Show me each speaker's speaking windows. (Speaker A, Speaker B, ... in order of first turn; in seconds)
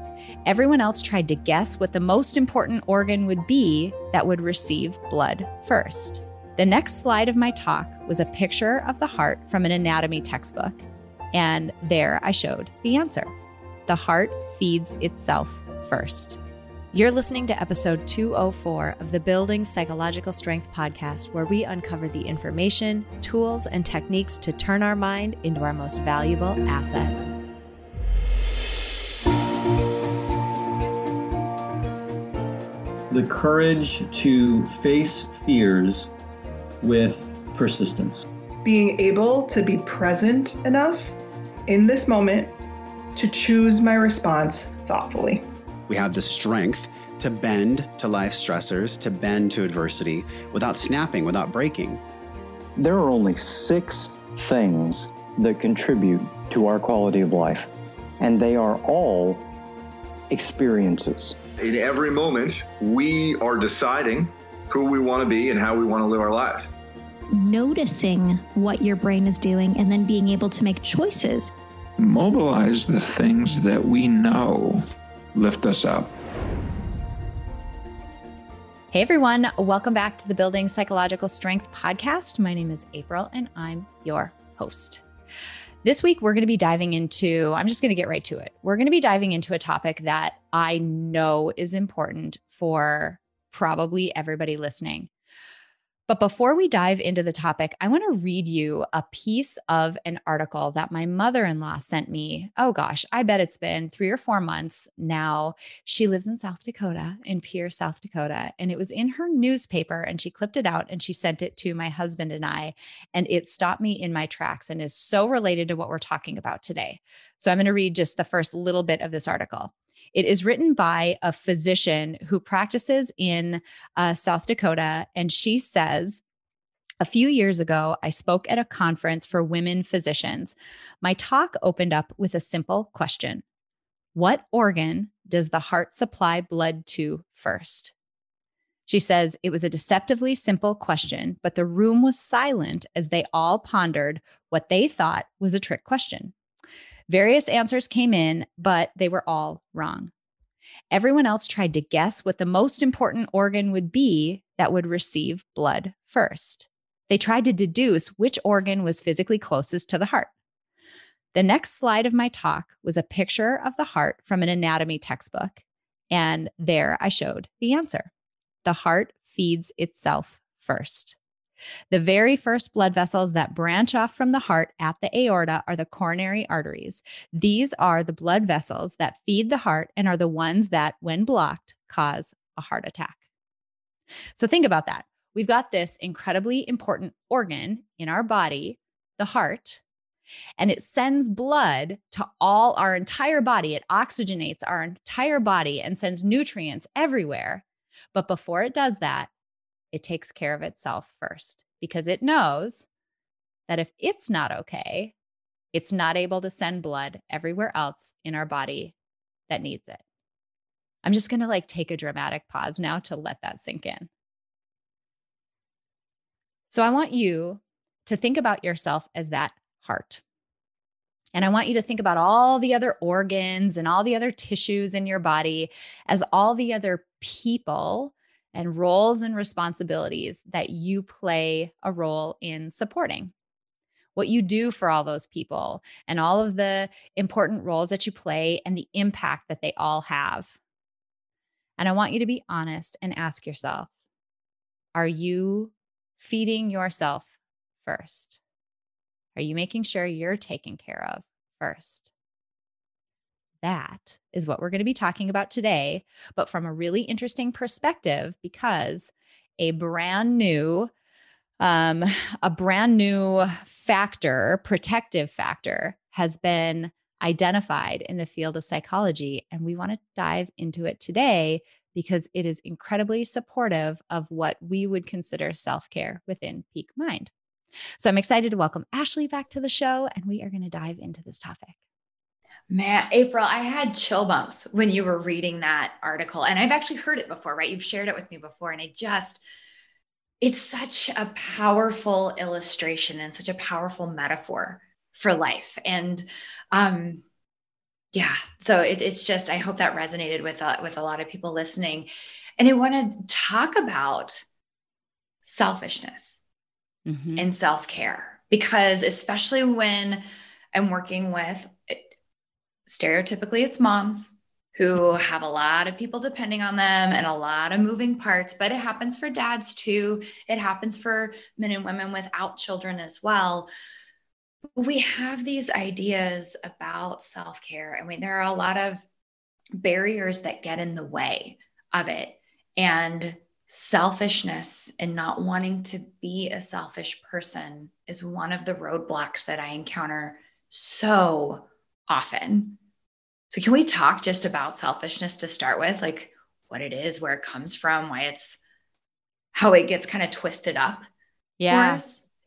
Speaker A: 0.4-10.8, 11.3-13.3, 13.9-16.4, 16.9-27.2, 78.9-85.0, 85.8-95.1, 96.1-126.2, 127.0-133.4, 134.1-137.9, 138.9-146.3, 147.1-150.1, 150.9-160.3, 161.3-168.1, 168.6-171.2, 171.9-183.2, 184.3-189.8, 190.6-199.3, 199.9-202.8, 203.7-205.1, 205.7-208.9, 209.5-210.0, 211.0-214.1, 216.7-220.2, 221.3-233.3, 234.2-240.5, 241.8-243.9, 244.9-247.3, 247.8-248.4, 249.3-252.1, 253.6-260.9, 261.6-277.3, 278.0-281.8, 307.1-307.5, 351.6-352.0
Speaker B: 33.1-36.1, 36.8-38.2
Speaker C: 38.6-42.5, 43.1-45.5
Speaker D: 45.9-52.0
Speaker E: 52.8-59.4, 60.3-61.4
Speaker F: 61.6-66.7
Speaker G: 67.3-71.5
Speaker H: 72.0-74.8, 75.3-76.1
Speaker I: 282.7-289.4, 290.4-297.2, 298.1-304.4, 305.4-306.4, 307.3-312.1, 312.9-323.7, 324.8-329.0, 329.7-342.8, 343.5-348.6, 349.5-351.1, 351.7-352.2